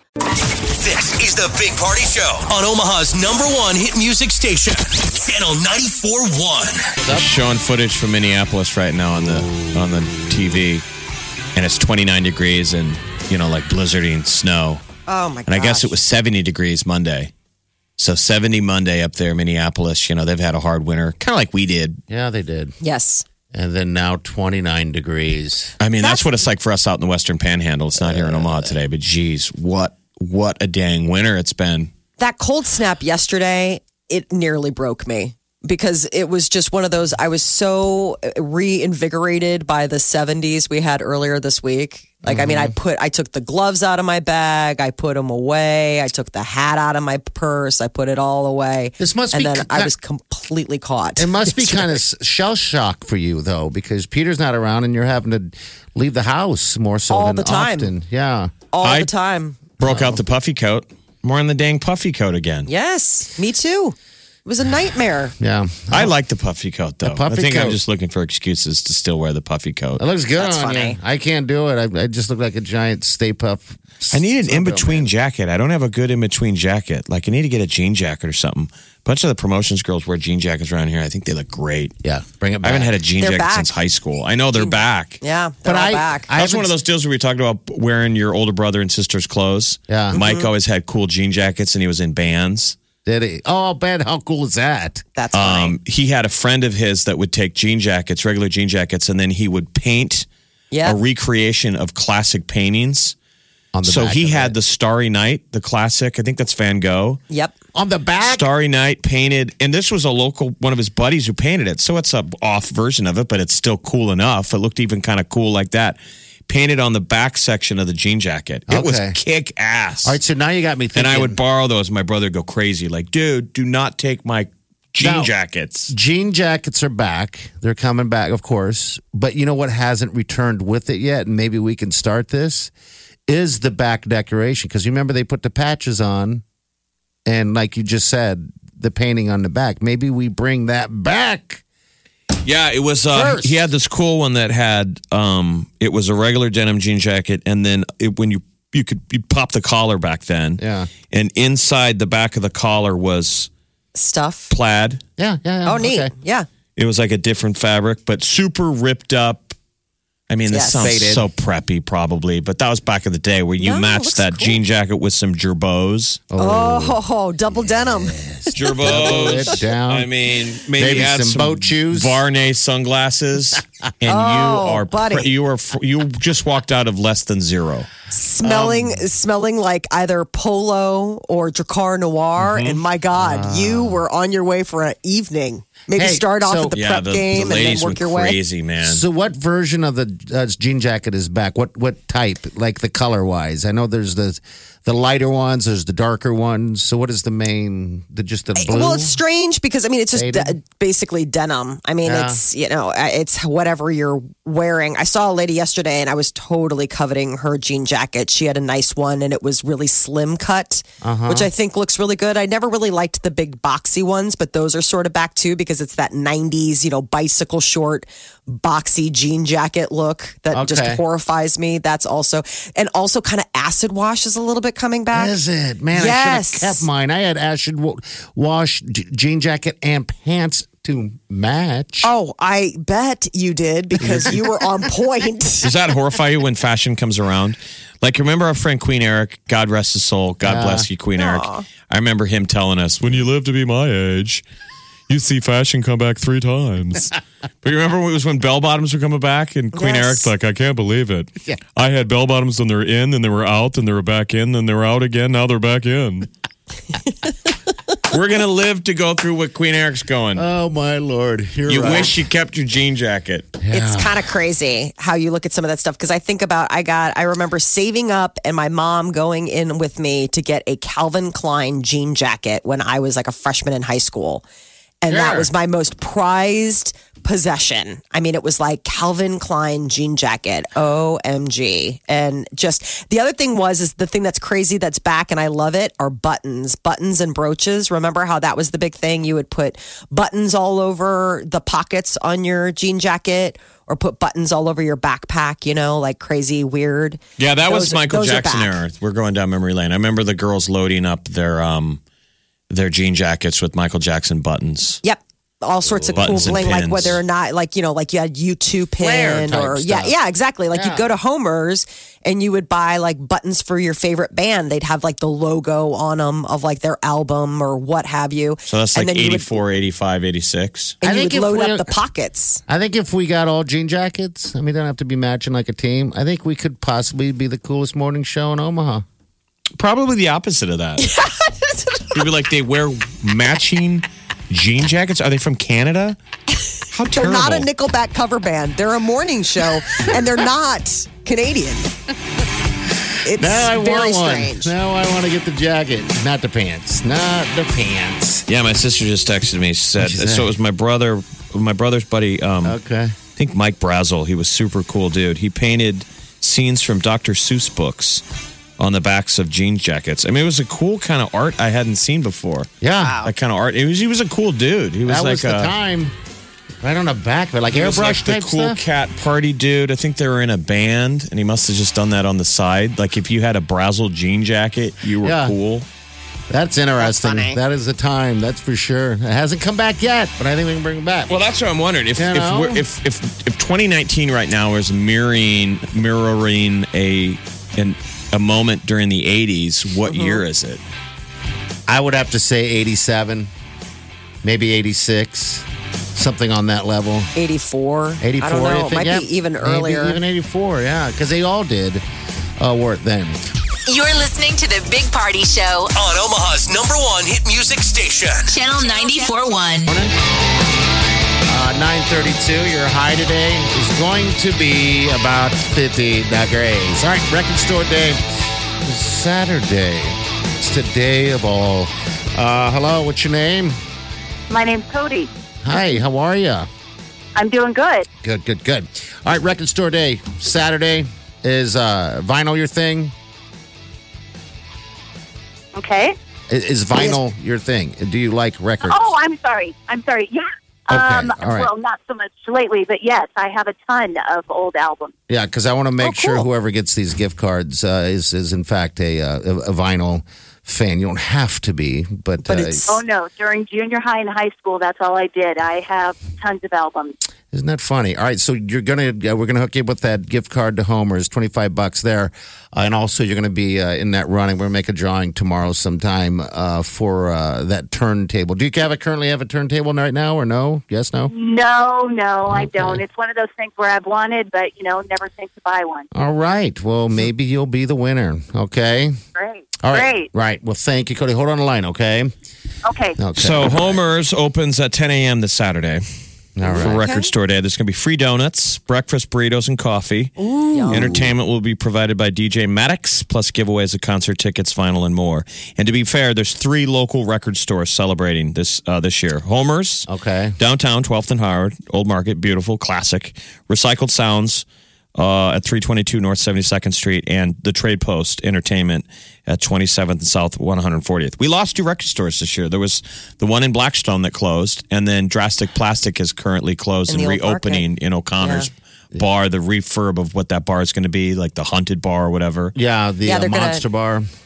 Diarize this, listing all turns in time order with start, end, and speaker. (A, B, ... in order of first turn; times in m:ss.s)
0:00.7-0:06.9 A
0:07.1-0:10.8 B
0:09.4-0:09.7 C
0:11.6-0:14.8 B
0:15.1-0:16.0 D
0:15.5-0:17.3 B
0:18.0-0:22.0 B
0:22.1-0:22.8 C
0:22.8-0:23.3 D
0:23.5-0:25.7 C
0:25.8-0:31.9 B
0:26.0-0:26.4 D
0:28.0-0:28.7 C
0:32.2-0:52.0 D
0:42.2-0:42.8 C
0:49.0-0:49.9 C
0:51.2-0:58.5 C
0:57.1-0:57.9 D
0:58.7-0:59.6 D
0:58.8-0:59.1 B
0:59.8-1:02.7 B
0:59.8-1:00.2 C
1:02.7-1:05.3 D
1:05.4-1:06.1 C
1:05.9-1:10.0 B
1:07.0-1:07.8 C
1:10.0-1:15.1 C
1:10.4-1:11.0 D
1:14.1-1:21.9 B
1:22.0-1:22.9 C
1:22.6-1:25.2 B
1:23.2-1:23.8 D
1:24.6-1:26.3 D
1:25.6-1:26.7 C
1:26.4-1:32.8 B
1:29.9-1:30.2 C
1:30.1-1:30.5 D
1:33.0-1:35.0 C
1:35.2-1:35.8 D
1:35.3-1:40.3 B
1:40.7-1:41.0 D
1:40.8-1:43.2 B
1:43.7-1:44.6 C
1:43.8-1:47.2 B
1:47.3-1:47.6 D
1:47.7-1:48.5 C
1:48.2-2:00.2 B
1:58.7-1:59.2 C
2:00.0-2:01.4 C
2:01.0-2:05.9 B
2:05.0-2:05.3 C
2:05.9-2:12.7 C
2:13.3-2:16.4 C
2:17.3-2:21.6 C
2:22.4-2:33.5 B
2:23.1-2:23.7 C
2:30.6-2:30.9 C
2:34.0-2:34.5 D
2:34.5-2:35.0 B
2:35.2-2:36.1 C
2:35.6-2:36.5 D
2:36.8-2:39.6 B
2:40.3-2:46.2 B
2:40.5-2:40.9 D
2:40.8-2:41.3 C
2:43.6-2:44.6 D
2:46.3-2:47.0 C
2:46.4-2:49.6 D
2:47.6-2:50.1 C
2:48.5-2:57.9 B
2:50.8-2:52.2 C
2:54.0-2:55.3 D
2:58.1-3:08.4 D
2:58.4-2:58.8 B
3:02.4-3:02.8 B
3:03.1-3:04.0 C
3:05.9-3:06.8 C
3:06.7-3:09.0 B
3:08.8-3:19.2 C
3:18.6-3:45.4 D
3:20.1-3:20.6 C
3:22.0-3:22.4 C
3:31.0-3:31.5 C
3:40.5-3:41.0 C
3:45.1-3:52.1 C
3:45.9-3:46.9 D
3:52.0-3:55.7 D
3:54.0-3:54.4 C
3:55.6-4:04.4 B
4:00.4-4:00.9 C
4:01.2-4:01.6 D
4:05.1-4:16.3 B
4:09.7-4:10.3 D
4:18.1-4:20.5 B
4:20.4-4:22.1 C
4:21.7-4:23.5 B
4:21.8-4:22.1 D
4:23.6-4:24.3 C
4:23.7-4:34.4 D
4:35.0-4:58.8 D
4:35.1-4:35.5 C
4:57.4-5:02.0 B
5:02.7-5:05.0 B
5:05.0-5:19.6 D
5:05.8-5:07.2 C
5:06.2-5:07.2 B
5:09.0-5:10.2 C
5:10.7-5:11.1 C
5:18.7-5:21.0 B
5:21.0-5:22.6 D
5:21.0-5:21.9 C
5:22.7-5:29.0 C
5:29.8-5:31.1 B
5:31.0-5:32.1 D
5:32.1-5:36.2 B
5:36.9-5:37.7 B
5:37.1-5:41.9 D
5:43.2-5:44.7 D
5:43.3-5:48.4 C
5:48.5-5:52.8 B
5:50.0-5:50.5 C
5:52.6-5:53.2 C
5:53.4-5:58.2 B
5:58.8-6:02.7 B
6:02.8-6:03.2 C
6:03.0-6:03.3 D
6:03.2-6:05.7 B
6:05.1-6:06.1 C
6:06.8-6:08.8 C
6:07.7-6:15.9 B
6:15.2-6:15.6 C
6:16.5-6:21.4 C
6:17.0-6:17.6 D
6:21.3-6:30.8 B
6:22.2-6:22.8 C
6:30.1-6:30.4 D
6:31.9-6:33.5 C
6:34.4-6:37.3 C
6:37.4-6:40.2 D
6:38.2-6:42.0 C
6:42.6-6:43.4 C
6:43.9-6:45.9 E
6:46.0-6:48.6 A
6:48.5-6:49.9 E
6:49.9-6:50.1 C
6:51.5-6:58.2 C
6:58.8-7:03.8 C
7:04.5-7:05.3 F
7:05.6-7:06.7 C
7:07.4-7:08.1 F
7:08.2-7:13.1 C
7:15.8-7:16.2 F
7:16.5-7:19.1 C
7:18.8-7:25.1 F
7:20.9-7:21.7 C
7:25.3-7:32.9 C
7:26.0-7:26.5 D
7:32.4-7:33.0 D
7:32.9-7:37.1 F
7:37.5-7:51.3 C
7:51.3-7:56.1 F
7:52.5-7:53.0 C
7:56.1-7:59.2 C
7:59.4-8:00.3 F
7:59.8-8:02.3 C
8:02.9-8:03.2 F
8:03.2-8:04.0 C
8:03.4-8:06.0 B
8:06.6-8:07.0 C
8:06.6-8:07.3 D
8:06.6-8:10.4 B
8:10.4-8:11.2 D
8:10.7-8:11.3 C
8:10.9-8:24.6 B
8:20.1-8:20.6 C
8:25.2-8:42.8 B
8:37.1-8:38.7 D
8:42.8-8:44.2 C
8:43.2-8:43.8 D